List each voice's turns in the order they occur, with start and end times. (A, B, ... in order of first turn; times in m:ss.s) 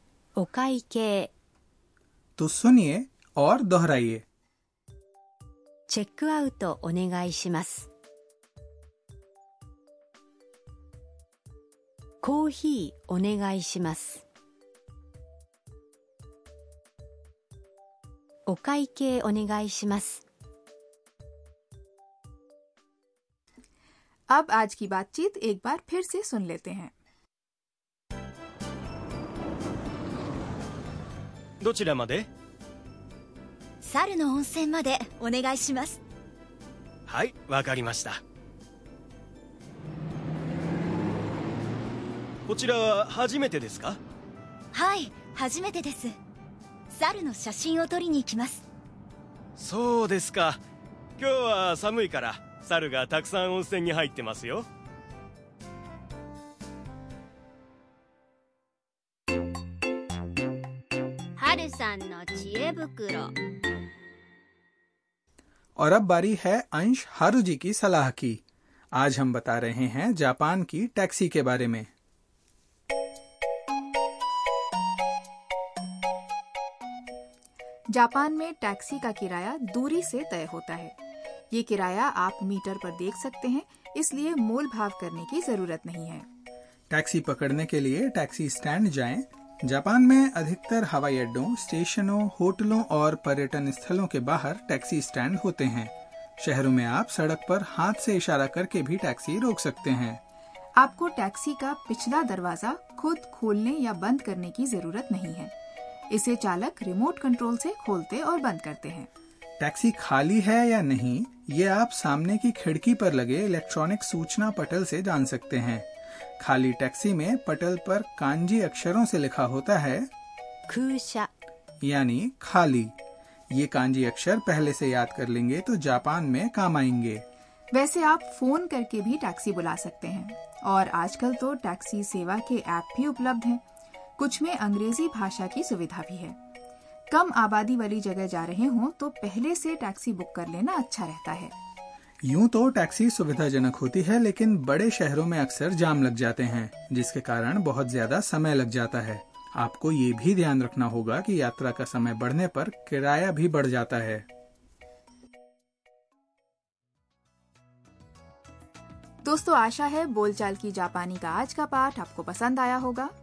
0:00.4-0:01.3 A
0:02.4-0:04.2 B
0:05.9-0:07.9 A
0:12.2-0:14.2 A
0:18.5-0:20.2 A
0:24.3-0:26.9 C
0:31.6-0:32.3 D
0:33.8-0:36.0 E
0:37.1-0:38.2 D
0:42.5-0:44.0 D
0:44.7-0:46.2 E
0:46.9-0:48.6 E
0:49.6-0:50.6 D
0:51.2-0:54.7 D
1:01.4-1:03.3 F
1:05.8-1:08.4 B
1:08.9-1:11.9 B
1:17.9-1:21.0 C
1:21.5-1:26.3 C
1:26.9-1:40.2 B
1:40.8-1:45.5 C
1:46.1-1:49.1 C
1:49.6-1:55.9 B
1:56.4-2:00.1 B
2:00.7-2:01.3 A
2:01.8-2:02.9 B
2:03.5-2:07.2 B
2:07.7-2:13.6 C
2:14.2-2:16.4 C
2:17.1-2:21.5 C
2:22.2-2:34.3 B
2:39.2-2:43.1 C